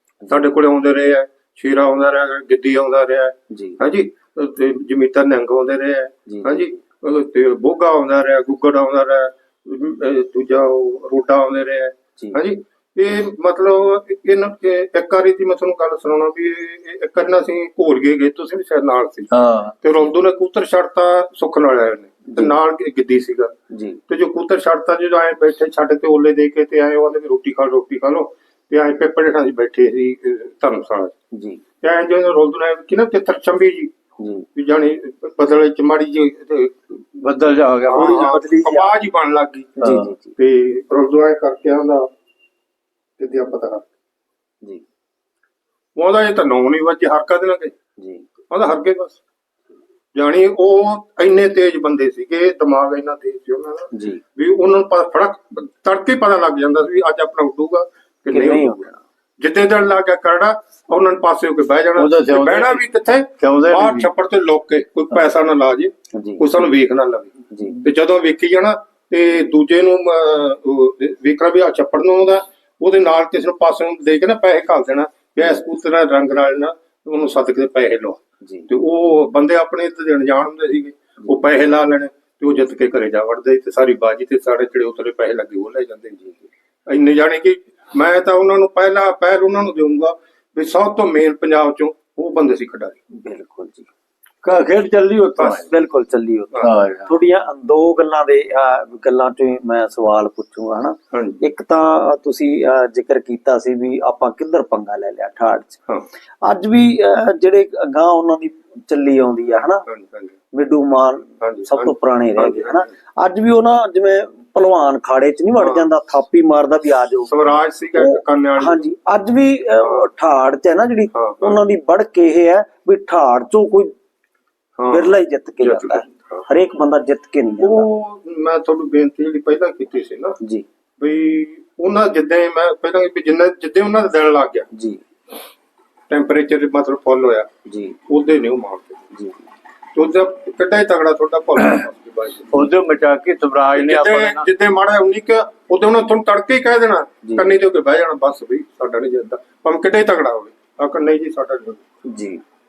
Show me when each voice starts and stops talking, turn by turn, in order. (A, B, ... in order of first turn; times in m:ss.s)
0:00.3-0:19.3 A
0:03.5-0:03.8 B
0:06.3-0:06.6 B
0:19.3-0:19.7 C
0:19.8-0:23.5 A
0:22.3-0:22.5 B
0:23.7-0:24.0 B
0:24.1-0:31.1 A
0:31.3-0:31.6 B
0:31.8-0:33.9 A
0:34.2-0:34.5 B
0:34.6-0:37.0 A
0:37.2-0:38.3 C
0:37.9-0:39.8 A
0:38.0-0:38.9 B
0:39.8-0:40.1 C
0:39.8-0:40.3 B
0:40.4-0:42.1 A
0:43.2-0:43.9 A
0:46.0-0:47.8 A
0:48.0-0:48.2 B
0:48.5-0:49.2 A
0:50.2-1:26.2 A
0:53.9-0:54.2 B
0:58.3-0:58.9 B
1:02.0-1:02.9 C
1:03.4-1:04.1 C
1:06.1-1:06.5 B
1:07.5-1:07.8 B
1:18.4-1:18.7 B
1:26.9-1:33.0 A
1:33.2-1:33.9 B
1:34.4-1:35.7 C
1:35.6-1:45.8 B
1:36.6-1:37.1 C
1:41.1-1:41.4 A
1:46.4-1:49.9 B
1:49.9-1:50.3 A
1:50.5-1:57.3 B
1:51.4-1:52.8 A
1:55.6-1:55.9 A
1:57.3-1:58.8 A
1:58.0-2:03.9 B
2:01.1-2:01.6 A
2:04.8-2:06.5 A
2:04.9-2:07.9 B
2:07.6-2:10.4 A
2:10.4-2:10.7 B
2:11.0-2:14.7 A
2:14.7-2:15.0 B
2:16.1-2:17.5 A
2:17.7-2:18.0 B
2:18.1-2:19.0 A
2:19.1-2:19.4 B
2:20.0-2:22.6 A
2:22.5-2:24.5 C
2:23.8-2:31.8 A
2:27.2-2:27.5 B
2:32.1-2:32.4 B